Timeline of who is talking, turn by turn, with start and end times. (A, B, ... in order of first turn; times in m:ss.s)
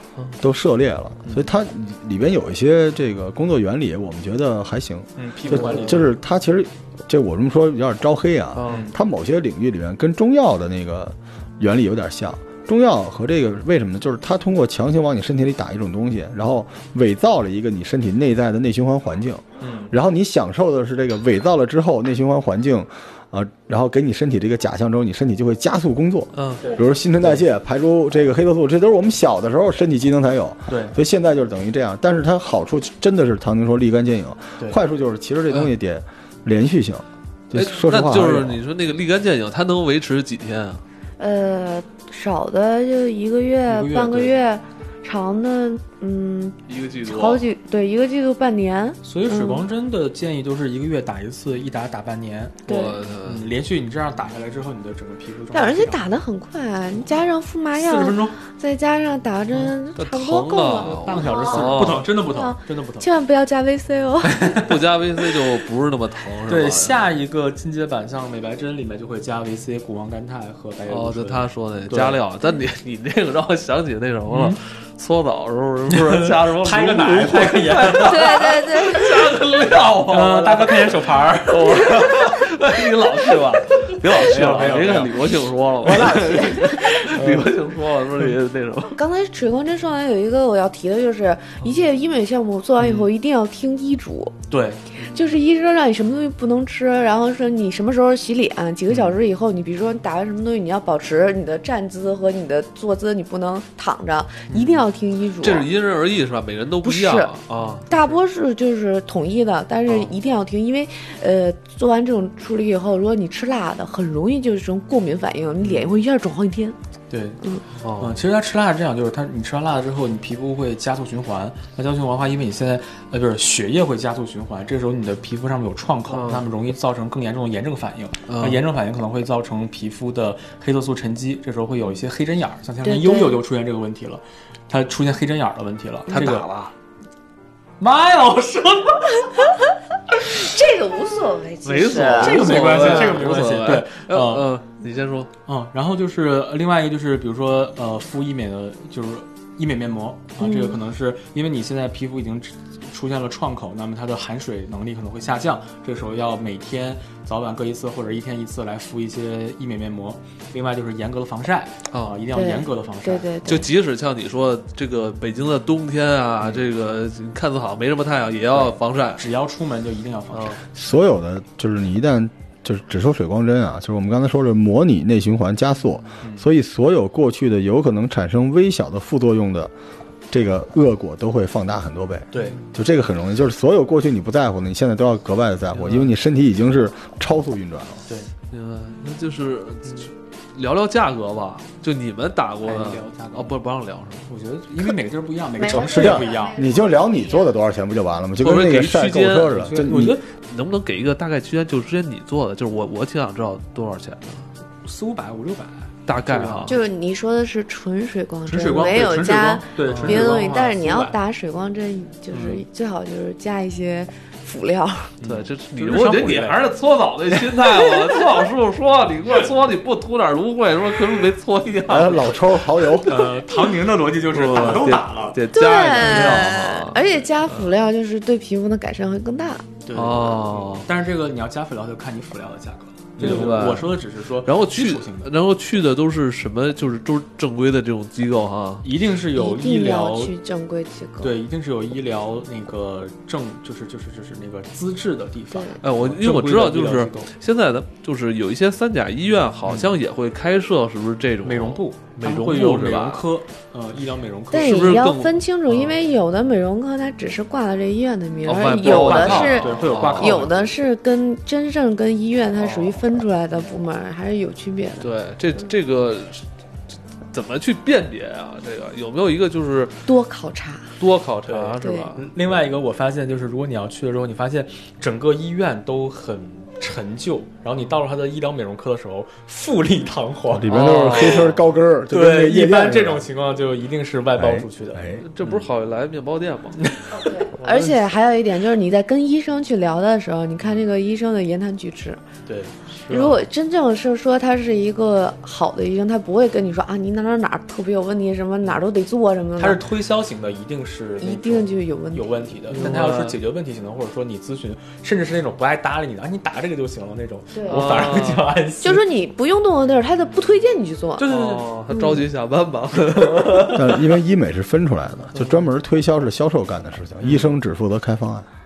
0:00.4-0:38.6 A
0:01.2-0:01.5 B
0:05.2-0:06.1 B
0:05.6-0:06.0 C
0:08.5-0:08.9 C
0:08.6-0:09.0 B
0:19.6-0:19.9 B
0:26.3-0:26.6 C
0:26.6-0:27.4 B
0:30.7-0:31.0 B
0:37.5-0:40.8 C
0:41.2-0:49.6 D
0:43.7-0:44.4 B
0:46.6-0:47.4 C
0:49.0-0:52.7 B
0:52.6-0:53.0 D
0:52.7-0:53.4 C
0:53.2-0:56.0 B
0:55.5-1:04.4 D
0:57.7-0:58.4 B
1:00.0-1:02.1 C
1:00.7-1:03.1 B
1:04.2-1:05.4 B
1:04.6-1:07.0 C
1:06.4-1:12.2 B
1:10.9-1:29.0 C
1:14.3-1:14.6 B
1:15.9-1:18.3 B
1:18.0-1:19.3 D
1:20.1-1:21.9 B
1:23.6-1:27.5 B
1:26.2-1:26.8 D
1:28.9-1:34.4 D
1:32.8-1:33.1 B
1:34.5-1:35.2 B
1:35.0-1:45.7 D
1:38.9-1:39.1 B
1:44.5-1:44.8 B
1:45.4-1:47.9 C
1:46.8-1:47.3 D
1:47.9-1:56.8 D
1:55.6-1:55.9 B
1:57.1-1:57.4 B
1:57.8-1:58.2 C
1:58.0-2:16.5 B
2:06.1-2:06.4 C
2:08.3-2:08.6 C
2:12.8-2:13.4 D
2:16.1-2:16.7 C
2:17.8-2:19.2 B
2:20.2-2:23.2 D
2:21.6-2:25.3 C
2:21.8-2:24.5 B
2:25.4-2:43.6 B
2:30.4-2:30.8 D
2:41.9-2:42.2 C
2:42.3-2:43.7 D
2:43.4-2:49.2 C
2:48.5-2:50.6 B
2:50.3-2:50.6 C
2:50.7-2:59.7 A
2:56.2-2:56.5 B
3:00.3-3:08.0 A
3:02.3-3:02.6 B
3:05.7-3:06.1 B
3:08.1-3:08.3 B
3:08.5-3:14.3 C
3:12.6-3:13.6 B
3:14.3-3:16.6 B
3:15.6-3:16.9 D
3:15.8-3:20.2 A
3:18.4-3:19.6 C
3:19.5-3:20.2 B
3:20.1-3:24.5 C
3:24.8-3:26.8 B
3:26.0-3:26.8 C
3:26.6-3:35.2 D
3:28.4-3:31.2 B
3:29.9-3:30.4 C
3:32.3-3:32.6 B
3:35.2-3:36.7 B
3:35.2-3:42.4 C
3:41.9-3:43.2 A
3:43.0-3:45.4 B
3:44.3-3:47.6 C
3:45.5-3:49.7 D
3:46.0-3:46.5 B
3:49.8-3:55.3 B
3:49.9-3:50.9 C
3:53.2-3:58.9 C
3:53.2-3:53.5 D
3:58.8-4:00.3 B
3:59.3-4:01.4 D
4:01.2-4:07.3 B
4:05.5-4:05.8 D
4:05.8-4:13.3 C
4:09.6-4:09.9 B
4:11.4-4:15.1 B
4:14.5-4:25.1 D
4:14.5-4:15.9 C
4:18.4-4:20.5 C
4:18.8-4:20.7 B
4:22.6-4:23.0 C
4:25.0-4:26.4 C
4:27.3-4:30.0 C
4:30.0-4:30.9 D
4:31.0-4:32.2 C
4:31.4-4:41.5 B
4:31.8-4:32.1 D
4:40.5-4:43.2 A
4:40.7-4:41.6 C
4:42.1-4:45.7 B
4:44.4-4:45.2 A
4:45.2-4:46.9 C
4:46.8-4:47.7 B
4:47.1-4:52.2 D
4:47.6-4:47.9 C
4:52.4-4:52.8 B
4:52.9-4:53.4 C
4:53.1-4:59.8 D
4:59.6-5:09.0 B
5:01.2-5:02.9 D
5:02.7-5:03.4 C
5:07.5-5:07.9 D
5:07.7-5:08.5 C
5:08.8-5:11.3 D
5:11.2-5:11.6 B
5:11.3-5:14.0 C
5:11.9-5:12.2 D
5:13.7-5:18.5 A
5:15.3-5:15.7 B
5:17.2-5:17.5 B